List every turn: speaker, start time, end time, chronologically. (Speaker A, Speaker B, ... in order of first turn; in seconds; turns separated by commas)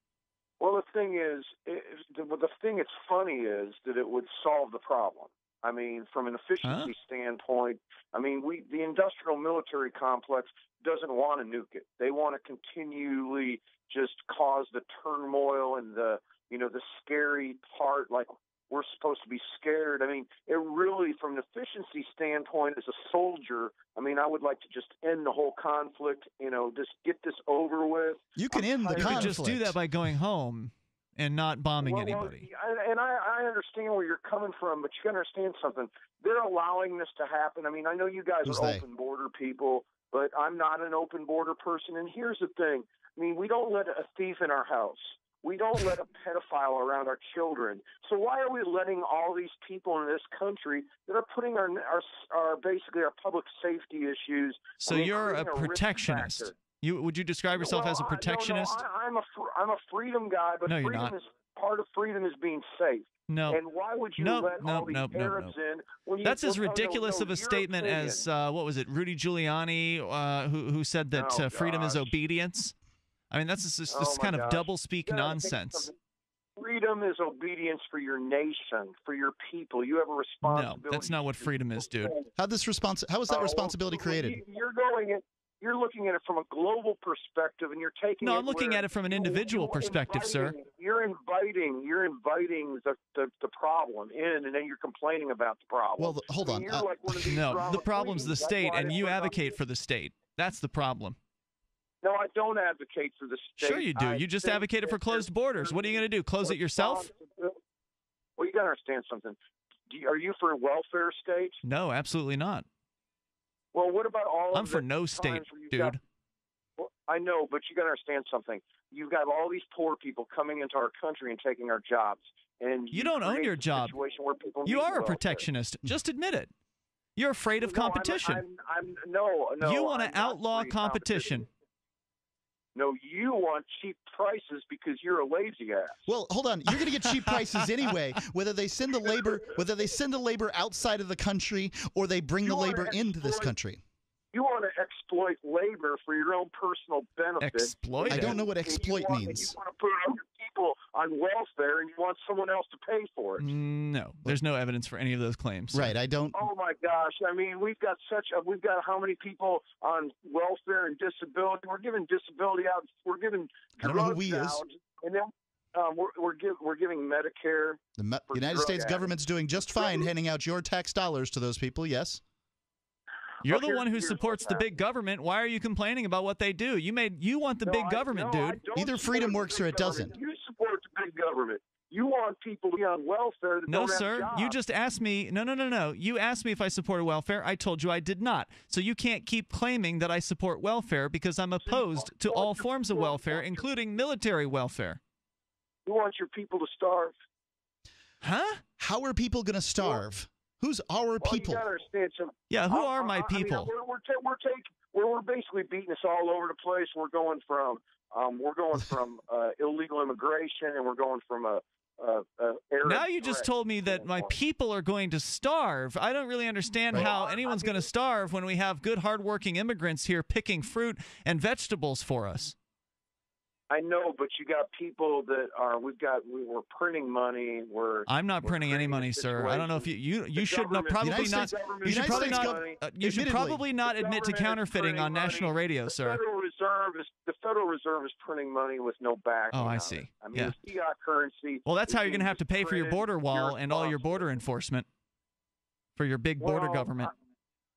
Speaker A: 0.6-29.4, Speaker B: 6.6-6.9, Speaker C: 28.4-29.8, Speaker B: 29.0-32.5, Speaker A: 31.8-56.5, Speaker C: 38.5-38.8, Speaker B: 54.8-58.8, Speaker A: 57.6-68.3, Speaker B: 60.7-61.1, Speaker B: 63.3-63.6, Speaker B: 64.2-65.5, Speaker B: 66.2-72.8, Speaker A: 71.1-72.1, Speaker B: 73.3-75.9, Speaker A: 73.9-75.9, Speaker A: 76.6-81.5, Speaker B: 80.4-82.2, Speaker C: 82.4-84.4, Speaker A: 83.3-99.5, Speaker B: 88.2-90.5, Speaker C: 96.0-97.6, Speaker B: 97.3-101.2, Speaker A: 102.0-107.5, Speaker B: 103.6-107.1, Speaker A: 108.4-109.4, Speaker A: 109.9-111.6, Speaker B: 111.6-112.7, Speaker A: 113.7-116.0, Speaker B: 114.5-116.0, Speaker A: 116.8-125.5, Speaker B: 122.9-124.0, Speaker B: 124.7-126.5, Speaker B: 127.2-128.4, Speaker A: 127.6-131.4, Speaker B: 129.6-131.5, Speaker A: 132.8-136.1, Speaker C: 136.1-143.8, Speaker B: 136.7-137.6, Speaker A: 142.4-143.5, Speaker A: 144.3-153.5, Speaker B: 147.4-148.4, Speaker C: 148.1-149.5, Speaker B: 153.4-155.9, Speaker C: 155.7-156.4, Speaker A: 156.3-170.1, Speaker C: 163.8-164.6, Speaker C: 168.0-172.2, Speaker A: 173.4-174.7, Speaker B: 173.4-178.6, Speaker A: 177.6-184.6, Speaker C: 178.8-180.1, Speaker B: 183.7-195.0, Speaker A: 191.6-193.7, Speaker A: 195.9-197.2, Speaker B: 198.2-198.6, Speaker C: 198.8-201.7, Speaker A: 201.2-214.4, Speaker B: 202.5-203.7, Speaker B: 212.8-222.6, Speaker A: 216.9-217.9, Speaker A: 223.7-232.8, Speaker B: 228.1-236.2, Speaker C: 231.0-233.6, Speaker A: 233.8-244.4, Speaker B: 239.5-240.6, Speaker B: 241.7-244.9, Speaker B: 246.0-247.1, Speaker A: 246.4-247.1